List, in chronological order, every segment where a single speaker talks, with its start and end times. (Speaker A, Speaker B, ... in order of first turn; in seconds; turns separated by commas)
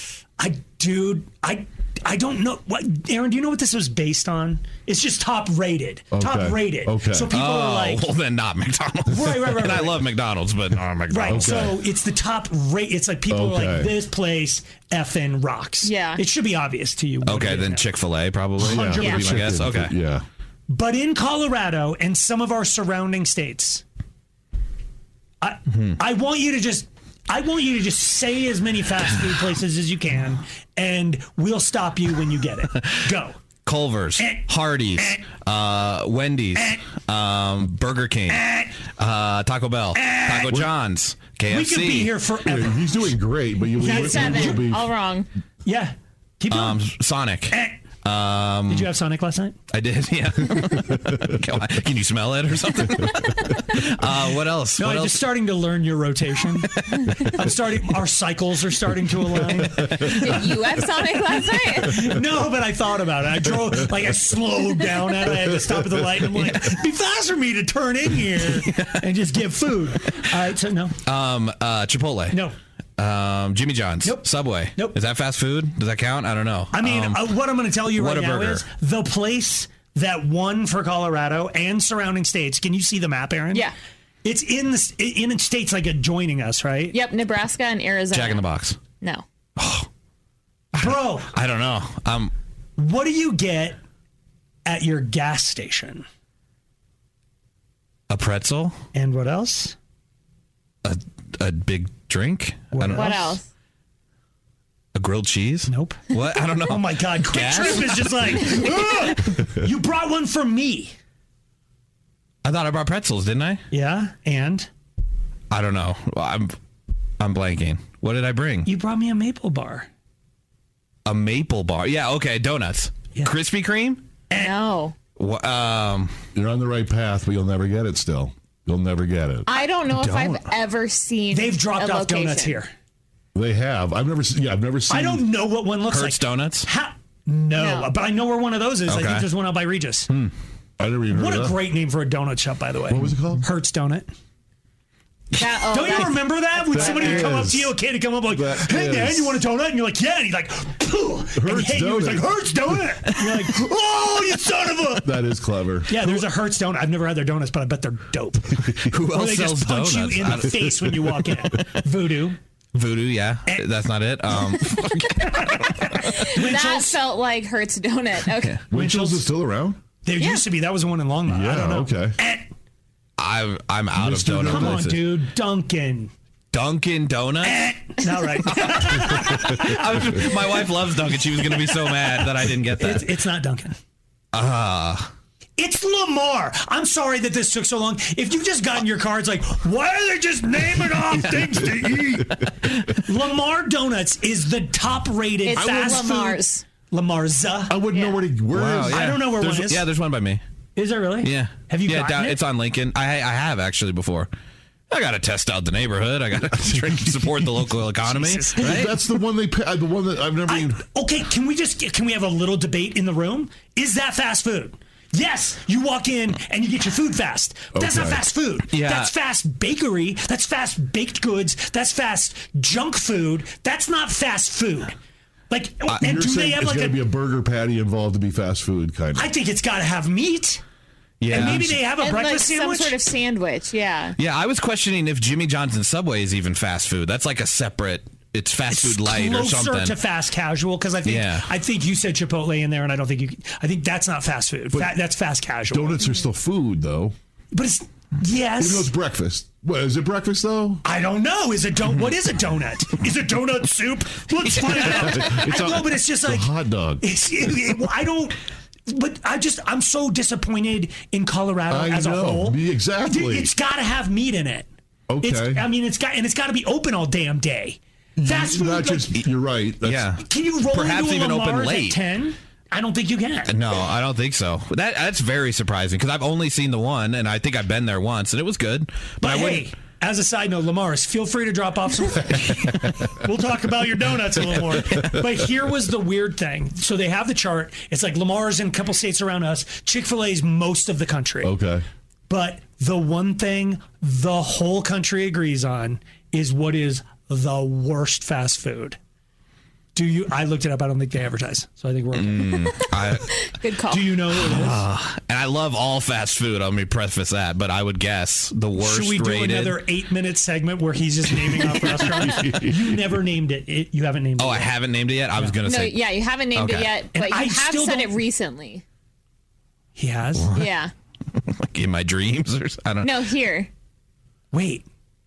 Speaker A: 0.4-8.0, Speaker B: 6.1-7.3, Speaker C: 7.3-11.7, Speaker A: 9.1-10.0, Speaker A: 11.1-17.9, Speaker B: 11.3-11.8, Speaker B: 13.3-14.0, Speaker D: 15.8-16.2, Speaker C: 17.2-19.9, Speaker B: 18.6-20.2, Speaker D: 19.0-19.2, Speaker A: 20.7-23.8, Speaker A: 25.4-33.4, Speaker C: 25.7-26.0, Speaker C: 33.6-42.1, Speaker A: 34.2-35.2, Speaker A: 36.5-36.8, Speaker A: 38.3-38.7, Speaker A: 40.0-40.6, Speaker A: 41.5-42.9, Speaker B: 42.4-44.9, Speaker A: 43.8-44.6, Speaker D: 43.9-45.3, Speaker A: 45.6-46.8, Speaker C: 46.5-48.9, Speaker A: 47.5-47.8, Speaker A: 48.7-49.5, Speaker C: 49.7-55.3, Speaker B: 50.9-51.4, Speaker A: 54.8-60.1, Speaker B: 59.6-60.3, Speaker D: 60.0-62.2, Speaker A: 61.8-71.0, Speaker B: 65.5-66.5, Speaker C: 71.0-72.4, Speaker C: 73.0-78.6, Speaker A: 74.0-74.9, Speaker A: 76.7-83.7, Speaker A: 84.2-87.0, Speaker D: 86.9-88.4, Speaker C: 88.1-88.8, Speaker D: 89.0-89.2, Speaker C: 89.6-89.9, Speaker C: 90.7-92.3, Speaker A: 90.8-91.3, Speaker A: 92.8-93.8, Speaker A: 94.7-96.0, Speaker C: 98.1-98.8, Speaker A: 98.9-99.8, Speaker C: 100.8-103.2, Speaker A: 102.7-103.4, Speaker D: 102.9-103.5, Speaker C: 104.9-108.6, Speaker A: 105.7-106.1, Speaker A: 106.6-110.9, Speaker C: 112.4-113.6, Speaker A: 113.7-114.7, Speaker C: 115.5-116.5, Speaker C: 117.2-118.7, Speaker A: 118.7-119.9, Speaker C: 121.0-124.0, Speaker A: 124.3-124.5, Speaker D: 124.3-124.9, Speaker C: 125.2-126.1, Speaker B: 126.3-129.5, Speaker D: 129.5-132.6, Speaker C: 129.9-130.5, Speaker A: 131.3-132.7, Speaker B: 133.3-135.3, Speaker A: 134.9-140.1, Speaker C: 135.9-136.7, Speaker D: 137.6-137.9, Speaker C: 138.9-139.3, Speaker B: 140.8-141.6, Speaker A: 141.1-144.1, Speaker B: 142.9-143.4, Speaker D: 145.4-147.3, Speaker A: 145.7-155.1, Speaker B: 146.7-147.8, Speaker B: 148.3-149.4, Speaker B: 151.3-152.4, Speaker B: 155.0-156.2, Speaker A: 155.9-162.4, Speaker C: 158.9-161.2, Speaker C: 162.7-166.1, Speaker A: 165.2-167.0, Speaker D: 166.1-168.6, Speaker B: 168.7-169.8, Speaker A: 168.7-169.3, Speaker A: 170.0-172.5, Speaker D: 170.2-170.4, Speaker B: 171.3-172.2, Speaker C: 173.2-175.1, Speaker B: 173.9-174.8, Speaker A: 174.1-176.1, Speaker C: 176.5-177.8, Speaker A: 177.4-180.3, Speaker C: 178.7-183.1, Speaker A: 181.5-182.2, Speaker A: 182.8-183.8, Speaker C: 184.3-185.1, Speaker A: 185.6-192.3, Speaker B: 191.7-192.2, Speaker C: 192.4-193.0, Speaker A: 193.0-197.8, Speaker D: 195.4-196.6, Speaker B: 197.7-199.1, Speaker C: 198.5-200.4, Speaker A: 198.9-199.9, Speaker A: 200.8-202.4, Speaker C: 201.2-204.3, Speaker C: 204.9-208.9, Speaker A: 208.1-208.9, Speaker B: 208.6-210.8, Speaker A: 210.5-224.9, Speaker B: 217.7-218.2, Speaker C: 218.7-219.1, Speaker A: 225.5-227.0, Speaker B: 226.0-229.3, Speaker A: 229.1-230.6, Speaker C: 231.2-231.8, Speaker A: 231.3-233.0, Speaker D: 231.4-234.1, Speaker C: 234.2-240.0, Speaker A: 238.7-246.1, Speaker C: 241.0-241.4, Speaker B: 245.7-247.1, Speaker A: 247.5-248.9, Speaker B: 248.6-250.8, Speaker A: 250.8-256.5, Speaker B: 254.7-257.0, Speaker A: 257.0-258.4, Speaker A: 258.9-264.7, Speaker B: 261.7-263.5, Speaker B: 265.1-265.6, Speaker A: 265.2-269.2, Speaker B: 268.2-270.1, Speaker C: 269.8-272.0, Speaker A: 270.2-273.5, Speaker C: 273.5-279.7, Speaker A: 279.2-291.5, Speaker B: 284.7-285.1, Speaker B: 291.4-291.8, Speaker A: 292.3-299.0, Speaker A: 299.9-302.5, Speaker C: 302.1-303.3, Speaker D: 302.5-304.1, Speaker A: 303.9-304.8, Speaker C: 304.4-309.8, Speaker A: 308.8-314.7, Speaker B: 312.2-313.1, Speaker C: 314.4-316.0, Speaker D: 315.6-318.8, Speaker C: 316.5-316.9, Speaker A: 317.1-318.2, Speaker A: 319.9-320.5, Speaker C: 320.4-320.7, Speaker D: 320.5-320.9, Speaker C: 321.4-323.1, Speaker D: 323.0-323.7, Speaker A: 324.5-324.9